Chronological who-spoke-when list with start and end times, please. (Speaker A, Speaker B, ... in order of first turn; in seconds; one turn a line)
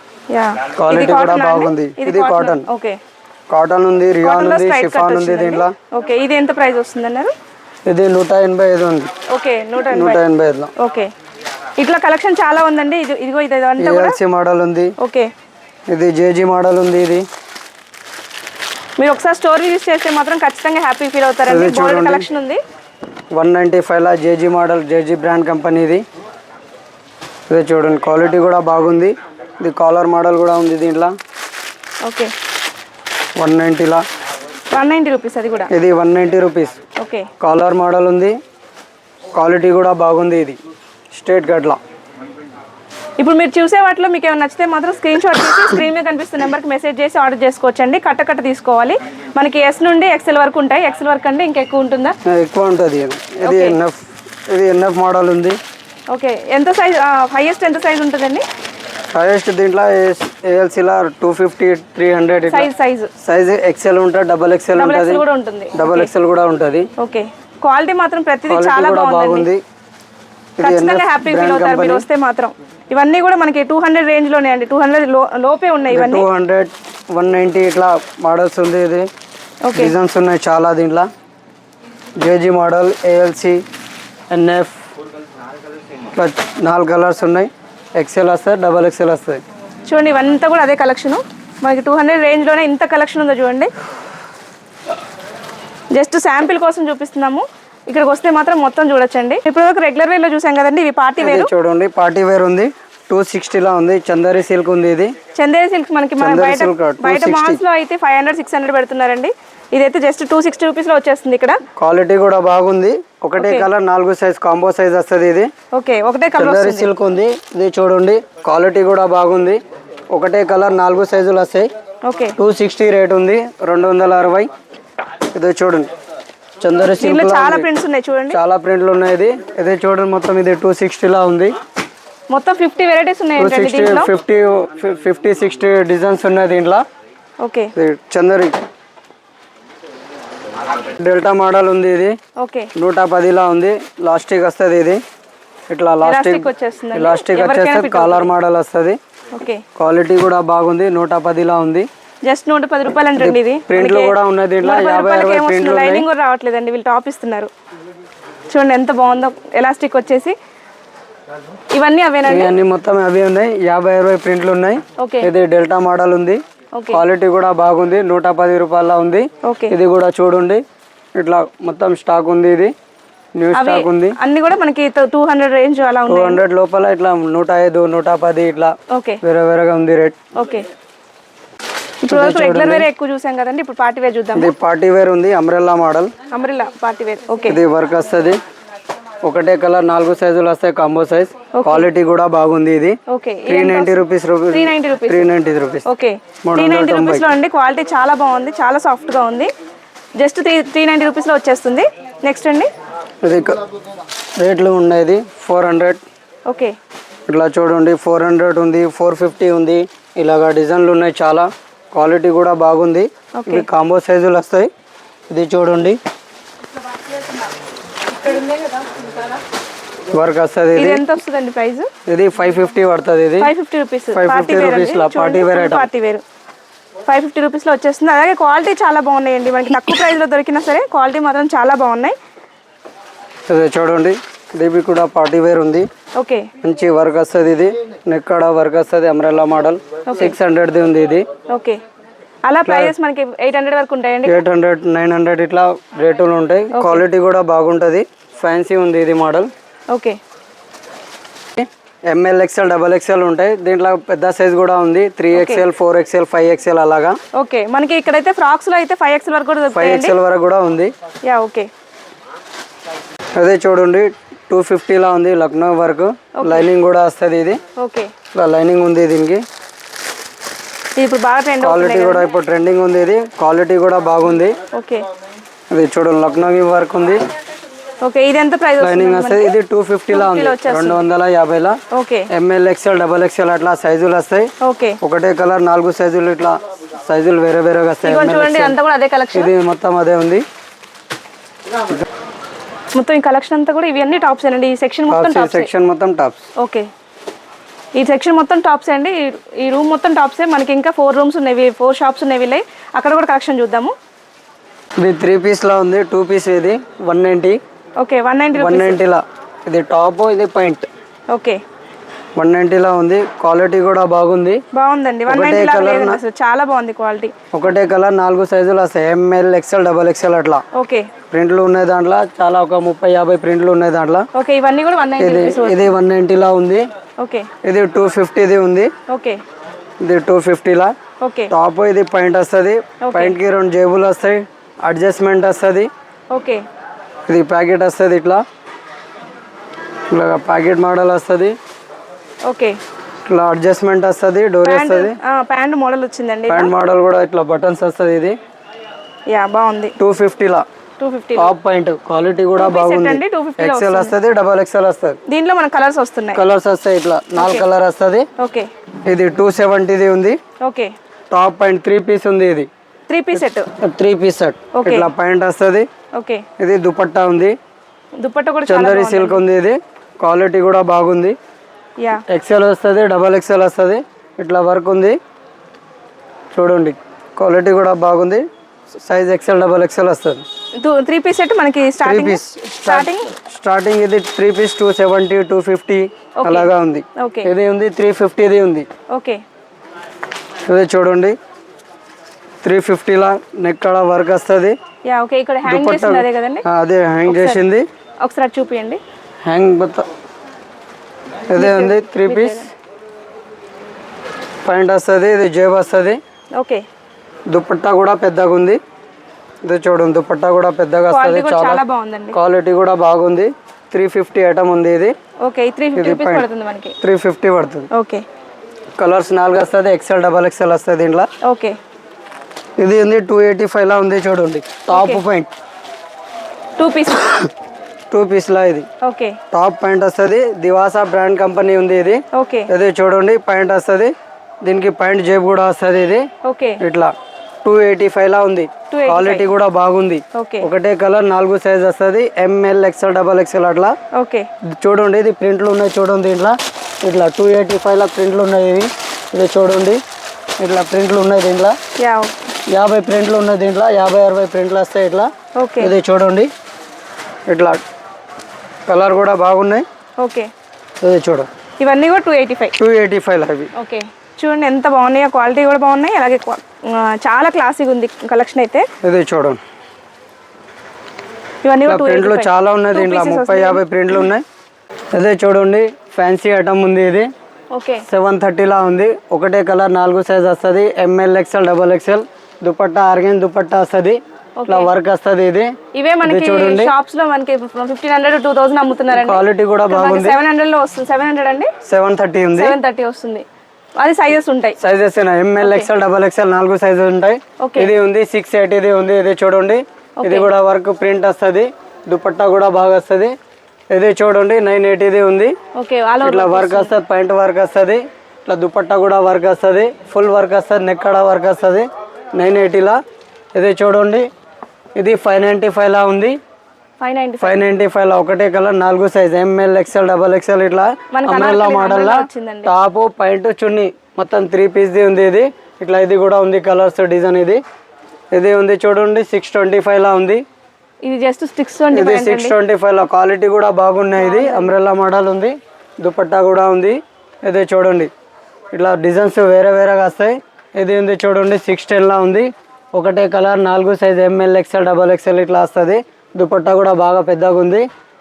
Speaker A: 0.3-3.0
Speaker B: 0.8-2.7
Speaker B: 3.5-5.7
Speaker A: 4.2-7.3
Speaker B: 7.8-9.1
Speaker A: 9.3-10.2
Speaker B: 9.9-10.7
Speaker A: 10.8-11.1
Speaker A: 11.8-14.2
Speaker B: 13.8-14.9
Speaker A: 15.0-15.3
Speaker B: 15.9-17.2
Speaker A: 19.0-22.6
Speaker B: 21.5-22.3
Speaker B: 23.3-26.0
Speaker B: 27.5-31.1
Speaker A: 32.0-32.3
Speaker B: 33.4-34.0
Speaker A: 34.7-35.7
Speaker B: 35.7-36.8
Speaker A: 37.0-37.3
Speaker B: 37.4-38.3
Speaker B: 39.3-40.6
Speaker B: 41.1-41.8
Speaker A: 43.2-52.1
Speaker B: 52.2-55.6
Speaker A: 53.4-53.8
Speaker A: 56.1-58.4
Speaker B: 59.1-62.7
Speaker A: 62.5-63.1
Speaker B: 63.2-65.2
Speaker A: 64.7-66.1
Speaker B: 65.7-66.9
Speaker A: 67.0-69.5
Speaker B: 68.5-69.6
Speaker B: 70.6-72.1
Speaker A: 70.6-76.3
Speaker B: 75.9-79.0
Speaker A: 79.6-79.9
Speaker B: 79.7-81.1
Speaker B: 82.2-83.6
Speaker B: 84.3-84.7
Speaker B: 86.1-89.4
Speaker A: 89.8-93.7
Speaker A: 95.9-101.5
Speaker B: 101.2-105.1
Speaker A: 105.3-111.6
Speaker B: 106.2-107.6
Speaker B: 111.8-115.5
Speaker A: 113.4-113.7
Speaker A: 115.7-116.9
Speaker B: 116.3-119.6
Speaker B: 120.1-121.7
Speaker A: 122.0-122.4
Speaker B: 122.3-124.5
Speaker B: 125.3-125.9
Speaker B: 126.6-127.7
Speaker A: 126.9-128.4
Speaker B: 128.3-131.5
Speaker A: 132.3-134.1
Speaker B: 133.4-136.8
Speaker A: 137.4-137.7
Speaker B: 137.8-138.6
Speaker B: 140.9-142.2
Speaker A: 142.4-142.7
Speaker B: 142.8-145.0
Speaker B: 145.7-149.0
Speaker A: 146.0-148.3
Speaker A: 149.3-149.6
Speaker B: 149.8-151.9
Speaker A: 152.2-157.5
Speaker B: 153.2-156.1
Speaker A: 158.5-160.3
Speaker A: 161.7-162.5
Speaker B: 162.2-170.6
Speaker A: 165.0-165.3
Speaker A: 166.7-167.0
Speaker A: 169.4-169.7
Speaker B: 171.2-172.7
Speaker B: 173.3-174.2
Speaker A: 173.5-176.4
Speaker B: 176.1-180.2
Speaker A: 178.9-179.2
Speaker A: 180.3-180.7
Speaker A: 182.0-184.5
Speaker B: 182.1-182.9
Speaker B: 184.3-186.1
Speaker A: 186.3-187.6
Speaker B: 187.5-188.4
Speaker B: 189.2-193.0
Speaker A: 191.5-191.8
Speaker A: 193.1-195.3
Speaker B: 193.5-195.8
Speaker A: 195.8-199.5
Speaker B: 196.4-197.3
Speaker A: 200.2-202.7
Speaker B: 203.2-203.6
Speaker B: 204.4-206.0
Speaker A: 206.5-206.7
Speaker B: 207.3-214.7
Speaker A: 213.3-213.7
Speaker B: 215.3-216.0
Speaker B: 220.1-221.0
Speaker A: 220.7-221.9
Speaker B: 222.1-223.5
Speaker A: 223.4-226.2
Speaker B: 224.1-225.9
Speaker A: 227.1-232.2
Speaker B: 233.5-235.8
Speaker A: 236.2-236.5
Speaker B: 236.6-241.3
Speaker A: 240.0-240.3
Speaker A: 241.5-241.8
Speaker A: 242.4-244.4
Speaker B: 242.6-242.9
Speaker B: 244.2-249.5
Speaker A: 246.7-247.0
Speaker A: 249.9-250.2
Speaker B: 251.5-257.1
Speaker A: 255.3-255.6
Speaker A: 257.3-260.1
Speaker B: 259.7-260.9
Speaker A: 261.2-261.7
Speaker B: 263.4-267.6
Speaker A: 266.4-266.7
Speaker A: 267.8-268.1
Speaker B: 268.3-269.4
Speaker A: 271.0-272.3
Speaker B: 271.6-274.6
Speaker A: 274.7-275.1
Speaker B: 275.7-277.3
Speaker A: 278.0-279.5
Speaker B: 278.8-281.8
Speaker A: 280.1-281.0
Speaker A: 281.9-282.3
Speaker B: 282.3-288.8
Speaker A: 284.6-285.0
Speaker A: 288.0-289.5
Speaker B: 289.3-290.4
Speaker A: 292.9-295.7
Speaker B: 295.1-296.4
Speaker A: 296.6-296.9
Speaker A: 297.9-303.9
Speaker B: 305.0-307.6
Speaker A: 308.0-309.0
Speaker B: 308.6-310.9
Speaker A: 311.3-311.6
Speaker B: 312.4-314.6
Speaker A: 314.7-317.3
Speaker B: 315.3-316.2
Speaker B: 317.5-320.6
Speaker A: 320.7-321.1
Speaker B: 321.3-324.2
Speaker A: 324.3-325.9
Speaker B: 325.2-326.8
Speaker A: 327.2-327.5
Speaker B: 327.6-328.9
Speaker A: 329.1-329.4
Speaker B: 330.0-330.9
Speaker A: 331.2-331.5
Speaker B: 331.5-335.9
Speaker A: 333.0-333.4
Speaker A: 336.3-336.6
Speaker B: 337.3-338.4
Speaker B: 340.1-341.6
Speaker A: 342.4-342.8
Speaker B: 343.2-345.1
Speaker A: 344.6-346.7
Speaker B: 346.5-348.4
Speaker A: 349.3-349.9
Speaker B: 350.0-350.6
Speaker A: 351.0-351.5
Speaker B: 351.4-355.2
Speaker A: 352.6-354.1
Speaker A: 355.3-356.4
Speaker B: 356.3-358.3
Speaker A: 357.4-357.6
Speaker A: 358.4-358.7
Speaker B: 359.1-360.4
Speaker A: 360.6-360.9
Speaker B: 361.3-362.7
Speaker A: 363.1-363.7
Speaker B: 363.3-365.9
Speaker A: 364.7-365.1
Speaker A: 366.1-366.4
Speaker B: 366.6-367.5
Speaker A: 368.2-369.4
Speaker B: 368.7-371.4
Speaker B: 372.3-375.1
Speaker B: 376.5-378.4
Speaker B: 379.0-380.4
Speaker A: 380.8-383.3
Speaker B: 382.0-388.9
Speaker A: 386.4-387.5
Speaker A: 389.1-389.4
Speaker B: 390.6-391.4
Speaker B: 392.6-394.7
Speaker A: 395.0-396.6
Speaker B: 395.6-397.9
Speaker A: 397.3-397.6
Speaker A: 398.2-399.0
Speaker B: 399.4-400.0
Speaker B: 401.5-402.7
Speaker A: 401.6-402.7
Speaker B: 404.6-406.2
Speaker A: 406.6-406.8
Speaker B: 407.5-408.8
Speaker B: 409.6-415.1
Speaker A: 411.1-412.4
Speaker A: 415.4-416.9
Speaker B: 415.9-416.4
Speaker B: 417.0-417.9
Speaker A: 417.9-418.2
Speaker B: 419.0-421.3
Speaker A: 421.4-421.8
Speaker B: 422.8-425.5
Speaker A: 424.9-425.2
Speaker A: 426.8-427.3
Speaker B: 428.1-428.9
Speaker A: 429.0-429.4
Speaker B: 429.5-436.2
Speaker A: 432.3-432.7
Speaker A: 436.4-436.8
Speaker B: 436.8-437.1
Speaker B: 437.6-443.9
Speaker A: 438.9-439.5
Speaker A: 440.3-440.6
Speaker A: 444.1-444.5
Speaker B: 444.7-450.0
Speaker B: 450.6-451.8
Speaker A: 452.0-452.4
Speaker B: 452.7-456.5
Speaker A: 455.6-455.9
Speaker B: 457.5-457.8
Speaker B: 458.9-459.8
Speaker A: 460.2-460.5
Speaker B: 461.0-461.5
Speaker A: 461.8-462.7
Speaker B: 462.8-463.7
Speaker A: 463.7-468.9
Speaker B: 469.0-469.6
Speaker A: 471.6-473.8
Speaker B: 471.9-474.4
Speaker B: 475.1-477.3
Speaker A: 477.7-478.0
Speaker B: 478.1-486.9
Speaker A: 484.6-484.9
Speaker A: 485.9-491.7
Speaker B: 489.1-490.4
Speaker B: 491.8-492.8
Speaker A: 492.5-493.4
Speaker A: 494.0-494.8
Speaker B: 494.8-503.3
Speaker A: 495.6-495.9
Speaker A: 497.6-497.9
Speaker A: 500.2-500.5
Speaker B: 503.9-505.5
Speaker A: 505.8-506.9
Speaker B: 506.2-513.0
Speaker B: 513.5-514.3
Speaker B: 515.0-516.4
Speaker A: 517.0-517.6
Speaker B: 517.4-527.6
Speaker A: 521.1-522.7
Speaker B: 528.3-530.4
Speaker A: 531.0-532.5
Speaker B: 531.9-538.1
Speaker A: 534.2-534.7
Speaker B: 538.7-547.9